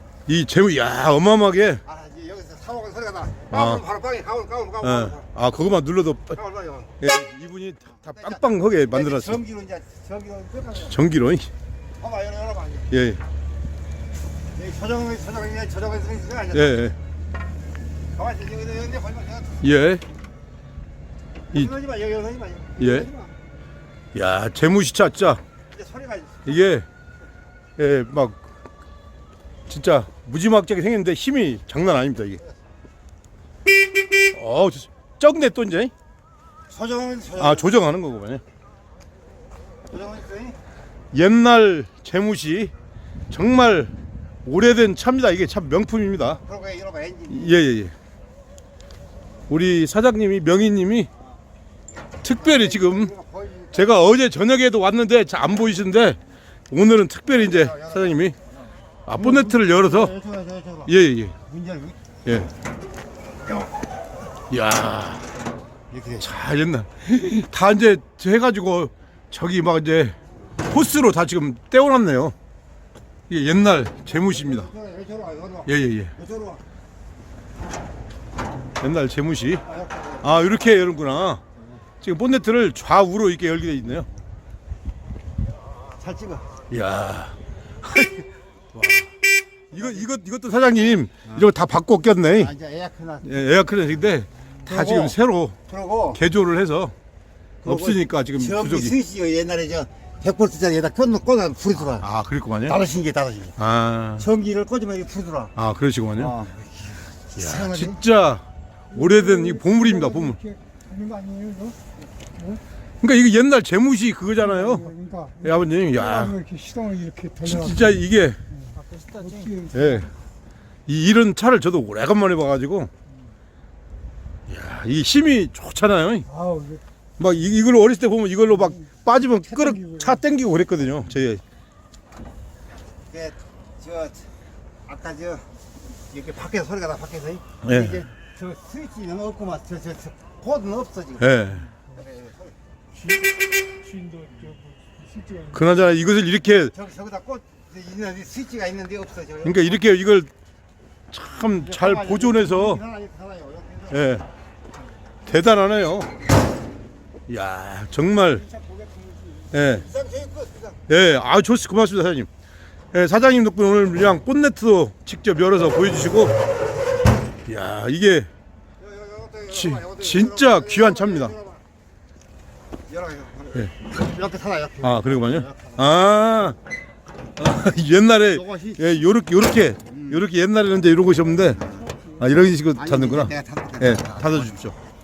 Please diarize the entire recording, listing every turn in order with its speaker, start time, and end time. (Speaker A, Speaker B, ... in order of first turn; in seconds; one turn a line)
Speaker A: 0.3-1.8
Speaker B: 1.9-5.2
Speaker A: 3.5-3.9
Speaker A: 4.8-6.4
Speaker B: 6.4-6.9
Speaker A: 7.0-9.4
Speaker B: 8.0-11.0
Speaker A: 10.8-11.5
Speaker B: 12.0-12.9
Speaker A: 12.9-13.2
Speaker B: 14.6-16.8
Speaker A: 16.5-17.0
Speaker B: 18.1-19.6
Speaker A: 19.6-20.0
Speaker B: 21.5-23.3
Speaker A: 22.8-23.1
Speaker A: 24.1-25.4
Speaker B: 25.7-26.6
Speaker A: 26.5-26.9
Speaker A: 27.8-28.4
Speaker A: 29.7-32.4
Speaker A: 34.3-35.9
Speaker B: 36.7-37.7
Speaker A: 37.4-38.4
Speaker B: 39.9-40.6
Speaker A: 41.1-42.7
Speaker A: 43.3-43.9
Speaker A: 44.5-46.4
Speaker B: 46.4-47.6
Speaker A: 47.3-47.9
Speaker A: 49.5-51.1
Speaker A: 52.2-53.2
Speaker B: 52.5-53.8
Speaker A: 53.7-58.4
Speaker A: 59.1-60.2
Speaker B: 59.2-60.9
Speaker A: 60.9-61.4
Speaker B: 61.5-62.0
Speaker A: 64.5-65.3
Speaker B: 65.9-66.2
Speaker A: 66.2-72.3
Speaker A: 73.3-74.8
Speaker B: 74.6-76.6
Speaker A: 75.7-76.2
Speaker A: 78.8-79.7
Speaker B: 79.7-80.2
Speaker A: 80.2-81.4
Speaker A: 82.0-84.1
Speaker B: 86.0-86.5
Speaker A: 86.7-89.1
Speaker A: 89.7-92.6
Speaker B: 92.4-93.4
Speaker A: 93.2-95.6
Speaker B: 94.7-95.2
Speaker B: 95.7-96.2
Speaker A: 96.1-96.9
Speaker A: 97.6-99.0
Speaker B: 97.7-102.0
Speaker A: 101.8-102.8
Speaker B: 102.7-103.6
Speaker A: 103.6-104.3
Speaker B: 104.2-105.5
Speaker A: 105.6-106.4
Speaker B: 106.2-108.0
Speaker A: 107.4-110.4
Speaker C: 111.0-111.7
Speaker A: 113.0-116.5
Speaker C: 116.5-117.3
Speaker A: 117.3-118.4
Speaker B: 118.8-119.7
Speaker A: 119.7-120.1
Speaker A: 120.9-122.9
Speaker A: 124.5-126.4
Speaker A: 127.2-131.4
Speaker B: 133.1-134.3
Speaker B: 134.9-135.5
Speaker B: 136.1-141.3
Speaker A: 137.6-138.0
Speaker A: 141.2-141.7
Speaker B: 141.9-142.5
Speaker C: 143.9-144.7
Speaker A: 145.5-146.8
Speaker B: 146.7-149.7
Speaker A: 149.4-150.3
Speaker A: 151.1-152.9
Speaker B: 151.8-153.9
Speaker A: 153.9-154.3
Speaker A: 155.3-156.1
Speaker A: 157.3-158.5
Speaker B: 158.5-160.7
Speaker A: 159.5-159.9
Speaker A: 160.9-162.3
Speaker A: 162.9-166.4
Speaker A: 167.5-168.3
Speaker B: 168.8-171.5
Speaker A: 169.4-171.4
Speaker B: 172.9-175.8
Speaker A: 174.8-176.6
Speaker A: 177.4-184.8
Speaker B: 178.4-178.8
Speaker B: 182.8-184.4